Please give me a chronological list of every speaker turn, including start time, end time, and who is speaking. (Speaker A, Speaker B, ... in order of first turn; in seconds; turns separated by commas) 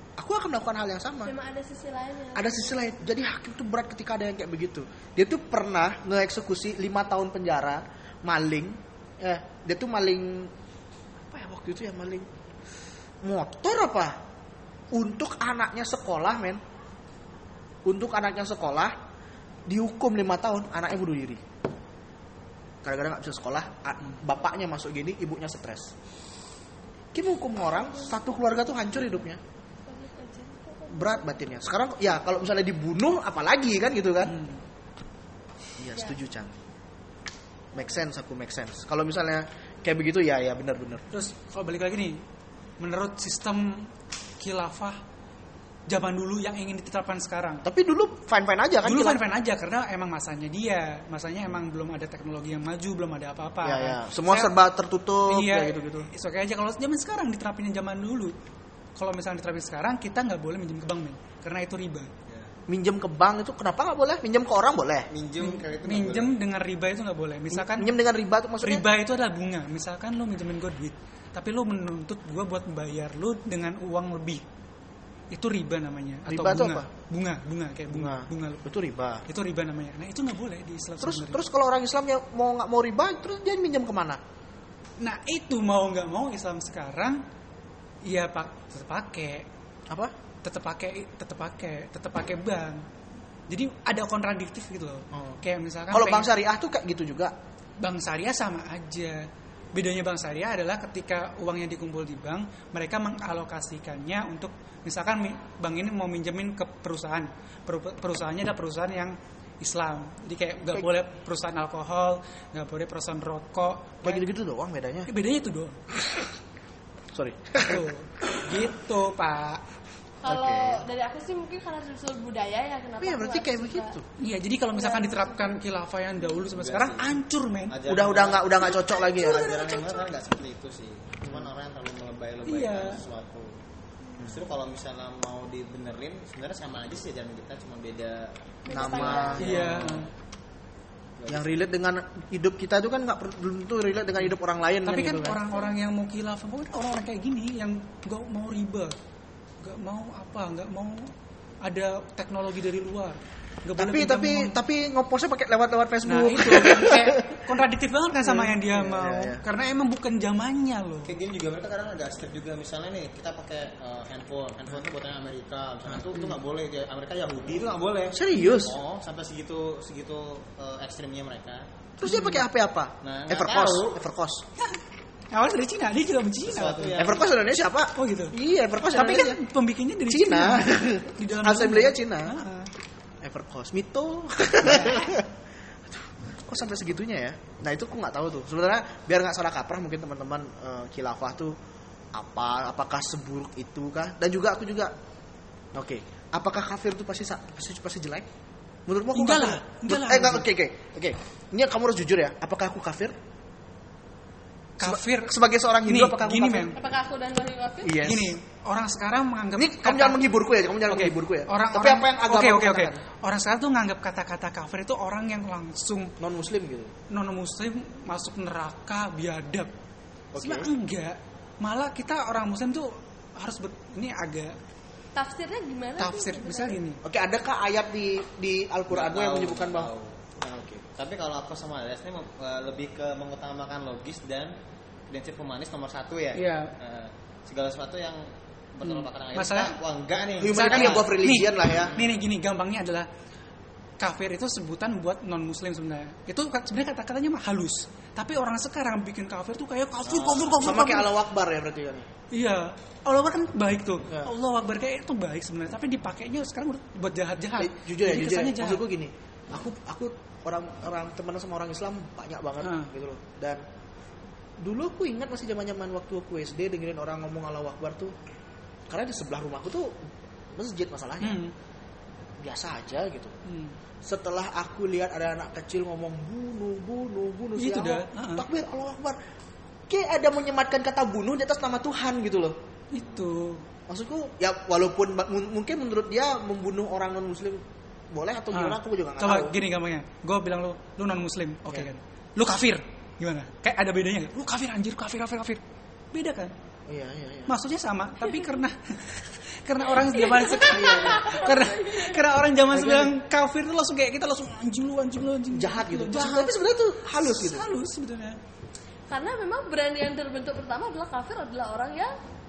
Speaker A: 0.2-1.3, Speaker B: 1.2-3.0, Speaker A: 2.3-10.5, Speaker A: 11.3-12.3, Speaker A: 13.2-14.2, Speaker A: 14.9-16.6, Speaker A: 17.8-18.9, Speaker A: 19.7-21.4, Speaker A: 22.8-25.9, Speaker A: 27.1-29.4, Speaker B: 29.9-31.4, Speaker A: 30.9-34.4, Speaker C: 34.2-34.6, Speaker A: 35.8-36.5, Speaker A: 37.7-41.0, Speaker C: 41.1-42.2, Speaker C: 42.8-45.0, Speaker C: 45.9-47.6, Speaker A: 47.6-49.2, Speaker C: 48.8-54.5, Speaker A: 53.6-56.1, Speaker C: 55.3-58.3, Speaker C: 59.0-62.1, Speaker A: 62.7-65.1, Speaker D: 65.1-66.3, Speaker C: 65.4-67.9, Speaker A: 67.5-68.8, Speaker C: 68.6-74.4, Speaker C: 75.3-78.7, Speaker A: 76.3-76.9, Speaker A: 77.9-79.2, Speaker C: 79.3-81.4, Speaker A: 81.0-84.2, Speaker C: 85.0-87.2, Speaker C: 88.0-89.5, Speaker A: 89.9-90.1, Speaker C: 90.4-92.8, Speaker C: 93.5-96.3, Speaker A: 95.1-97.3, Speaker C: 97.8-114.2, Speaker A: 114.0-115.1, Speaker C: 115.1-115.8, Speaker A: 117.1-117.9, Speaker C: 117.6-119.6, Speaker B: 120.2-123.9, Speaker A: 120.2-120.8, Speaker A: 123.0-124.0, Speaker C: 124.2-127.8, Speaker B: 124.7-125.5, Speaker D: 126.4-133.6, Speaker A: 127.8-129.5, Speaker C: 128.8-130.0, Speaker A: 131.2-131.5, Speaker C: 132.4-133.0, Speaker D: 134.2-140.1, Speaker B: 138.6-139.5, Speaker A: 138.7-139.8, Speaker C: 139.4-140.1, Speaker D: 141.2-141.6, Speaker A: 141.3-145.4, Speaker C: 144.8-148.9, Speaker C: 149.6-151.1, Speaker C: 151.6-154.6, Speaker A: 153.8-157.4, Speaker C: 156.1-161.1, Speaker A: 158.2-159.4, Speaker D: 161.1-171.7, Speaker A: 168.1-168.8, Speaker A: 172.0-174.4, Speaker C: 172.0-172.4, Speaker D: 173.0-174.0, Speaker C: 175.3-177.0, Speaker D: 176.4-177.3, Speaker A: 176.9-179.4, Speaker C: 177.9-178.3, Speaker C: 178.9-182.7, Speaker A: 180.1-182.4, Speaker A: 183.2-185.3, Speaker C: 184.6-185.1, Speaker A: 185.9-191.6, Speaker A: 192.1-194.9, Speaker A: 195.7-198.3, Speaker A: 198.9-203.1, Speaker C: 199.1-200.4, Speaker C: 204.8-206.8, Speaker A: 204.8-206.8, Speaker B: 206.7-208.0, Speaker A: 207.8-208.3, Speaker C: 208.0-210.2, Speaker A: 209.6-213.0, Speaker C: 210.9-216.1, Speaker A: 216.2-216.9, Speaker C: 217.1-219.7, Speaker A: 220.3-220.7, Speaker C: 220.4-224.6, Speaker B: 225.1-226.8, Speaker C: 226.0-227.0, Speaker A: 227.0-230.8, Speaker D: 228.9-230.2, Speaker D: 230.9-234.5, Speaker D: 235.1-241.1, Speaker C: 236.3-236.7, Speaker C: 238.8-239.7, Speaker A: 240.4-242.0, Speaker C: 240.5-243.1, Speaker D: 241.8-242.2, Speaker C: 244.0-251.1, Speaker D: 250.0-250.7, Speaker A: 250.6-252.1, Speaker C: 252.3-258.8, Speaker A: 257.6-263.6, Speaker C: 262.6-262.9, Speaker A: 264.6-268.1, Speaker A: 268.9-269.9, Speaker A: 270.5-271.4, Speaker C: 271.2-271.5, Speaker A: 272.4-273.3, Speaker C: 273.4-273.8, Speaker A: 274.0-279.2, Speaker C: 277.6-278.4, Speaker A: 279.9-282.6, Speaker C: 282.9-283.6, Speaker A: 283.9-289.6, Speaker C: 288.5-295.6, Speaker C: 296.1-296.5, Speaker A: 296.9-297.5, Speaker C: 297.5-306.6, Speaker B: 300.1-302.2, Speaker A: 300.7-301.2, Speaker A: 302.7-303.1, Speaker A: 305.5-307.7, Speaker C: 307.2-308.4, Speaker B: 309.1-312.1